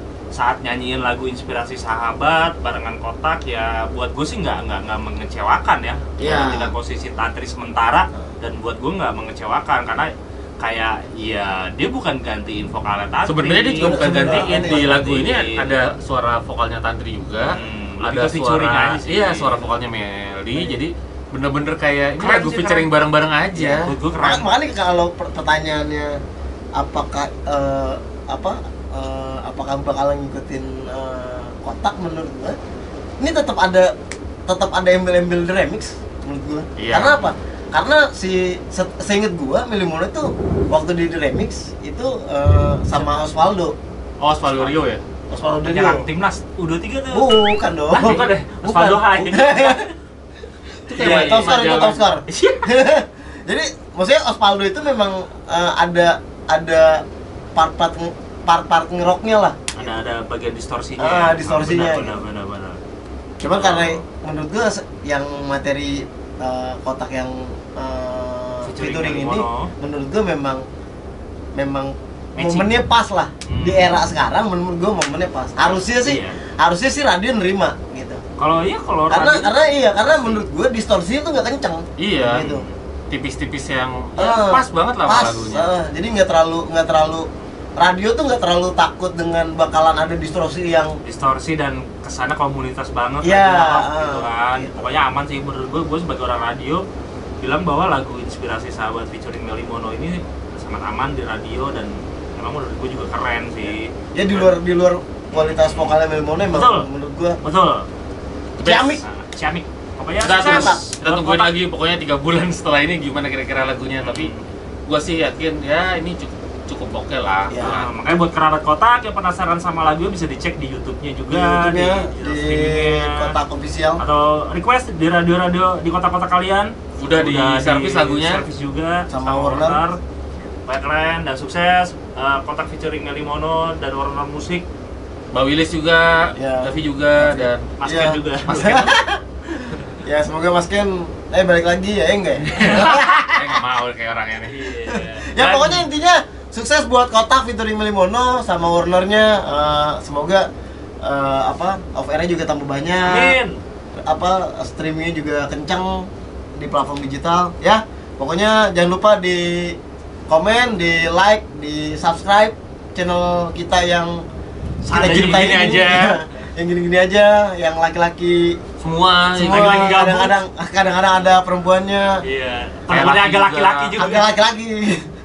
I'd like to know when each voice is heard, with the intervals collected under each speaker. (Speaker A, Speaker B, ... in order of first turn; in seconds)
Speaker A: 0.3-15.7, 17.4-19.7, 22.2-22.9, 23.8-24.5, 44.4-44.8, 45.4-47.4, 47.9-49.9, 50.9-52.7, 59.8-62.8, 63.4-64.0, 68.7-69.7, 72.4-72.8, 73.5-74.0, 75.7-76.4, 78.4-80.4, 82.4-82.8, 91.0-96.8, 97.4-104.5, 105.3-106.0, 106.5-106.9, 107.4-107.9, 108.6-111.5, 114.0-114.5, 117.6-123.4, 124.0-130.0, 130.7-134.7, 137.8-138.8, 144.4-145.8, 153.1-153.6, 164.8-165.8, 169.6-170.1, 172.2-174.3
Speaker B: 6.2-6.7, 13.8-15.0, 20.5-20.8, 23.5-26.2, 26.8-32.6, 33.2-33.9, 34.5-43.8, 45.3-46.1, 47.1-49.9, 51.0-57.0, 57.5-60.0, 61.0-62.2, 63.4-70.6, 71.6-78.2, 79.1-82.6, 84.2-91.0, 93.2-94.9, 104.1-107.4, 108.6-109.0, 110.3-110.8, 117.5-117.8, 121.3-124.0, 129.1-129.8, 136.4-139.2, 140.0-143.5, 144.9-150.5, 151.0-153.4, 154.1-159.8, 160.3-164.3, 164.9-168.6, 169.3-172.2, 174.0-175.0
Speaker C: 13.2-23.9, 36.8-37.2, 44.2-45.0, 48.0-48.3, 50.9-52.0, 82.0-82.5, 83.1-85.7, 110.2-114.3, 114.9-117.9, 127.0-128.4, 135.3-137.7, 138.4-139.0, 142.6-144.6, 164.9-166.2, 168.8-170.3, 172.9-174.0